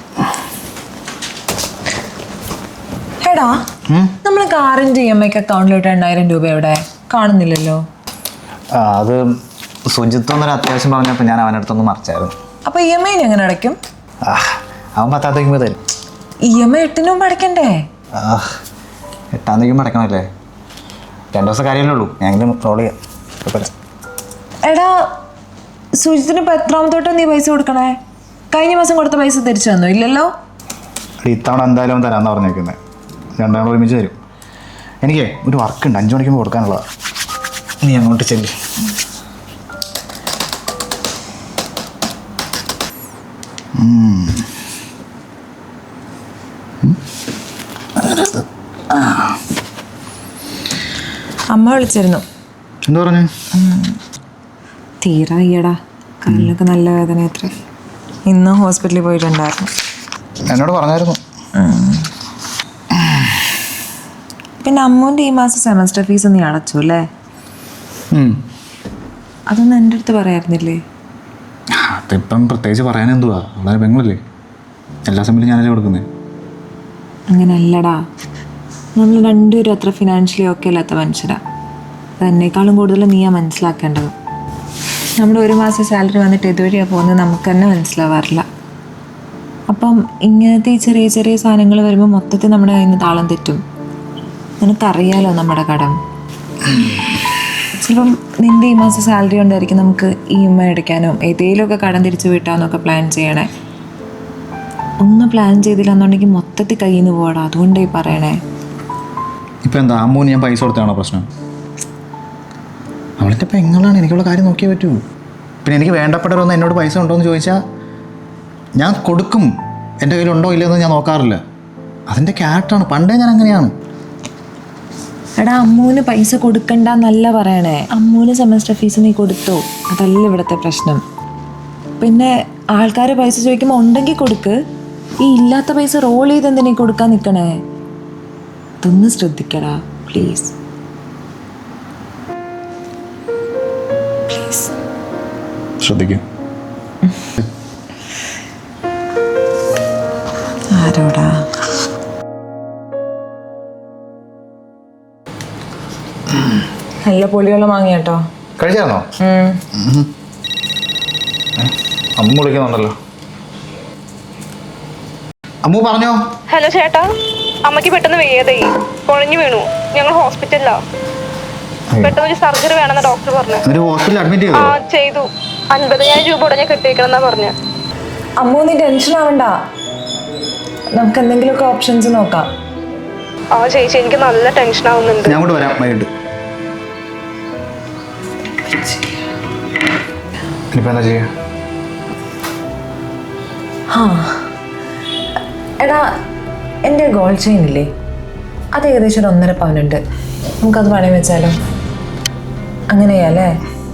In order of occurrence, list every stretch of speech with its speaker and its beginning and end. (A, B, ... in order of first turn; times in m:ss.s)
0:03.2-0:03.5 A
0:03.9-0:04.2 B
0:04.2-0:07.8 A
0:08.7-0:09.2 B
0:09.9-0:12.3 B
0:12.6-0:13.8 A
0:14.2-0:15.8 B
0:16.5-0:17.8 A
0:18.2-0:18.4 B
0:19.3-0:20.3 B
0:21.3-0:23.7 B
0:24.6-0:25.1 A
0:26.0-0:28.0 A
0:28.5-0:30.3 A
0:31.2-0:32.8 B
0:33.4-0:34.2 B
0:35.0-0:36.8 B
0:37.8-0:38.5 B
0:43.8-0:44.5 B
0:48.0-0:49.4 B
0:51.5-0:52.2 A
0:52.9-0:53.3 B
0:53.5-0:54.0 A
0:55.0-0:57.5 A
0:58.3-0:59.7 A
1:00.5-1:01.2 B
1:01.6-1:02.1 A
1:03.0-1:03.3 B
1:04.6-1:07.0 A
1:08.1-1:08.4 B
1:09.5-1:10.8 A
1:11.7-1:14.2 B
1:15.0-1:16.1 B
1:17.3-1:18.0 A
1:19.0-1:21.4 A
1:22.2-1:24.1 A
1:25.2-1:28.4 A
1:29.7-1:33.6 A
1:34.6-1:36.0 A
1:37.8-1:43.5 A
1:45.0-1:48.4 A
1:49.6-1:51.2 B
1:53.2-1:55.0 B
1:55.6-1:57.6 B
1:58.8-1:59.5 B
2:00.0-2:01.4 B
2:02.1-2:03.7 B
2:05.4-2:11.0 A
2:12.0-2:14.6 A
2:15.2-2:17.5 A
2:18.8-2:20.5 A
2:25.8-2:26.2 B
2:30.7-2:31.4 A
2:37.0-2:38.2 A
2:38.6-2:39.0 B
2:39.2-2:39.6 A
2:39.8-2:40.1 B
2:41.6-2:43.0 B
2:45.6-2:46.2 B
2:46.5-2:47.1 C
2:47.6-2:50.8 C
2:52.0-2:53.6 C
2:53.6-2:54.8 B
2:54.5-2:57.5 C
2:58.4-2:59.5 A
3:01.0-3:02.5 A
3:03.6-3:05.4 C
3:05.2-3:06.1 B
3:10.7-3:11.3 B
3:13.9-3:14.4 A
3:15.8-3:16.1 A
3:16.9-3:17.9 A
3:18.7-3:20.0 A
3:20.6-3:21.6 A
3:22.9-3:23.6 A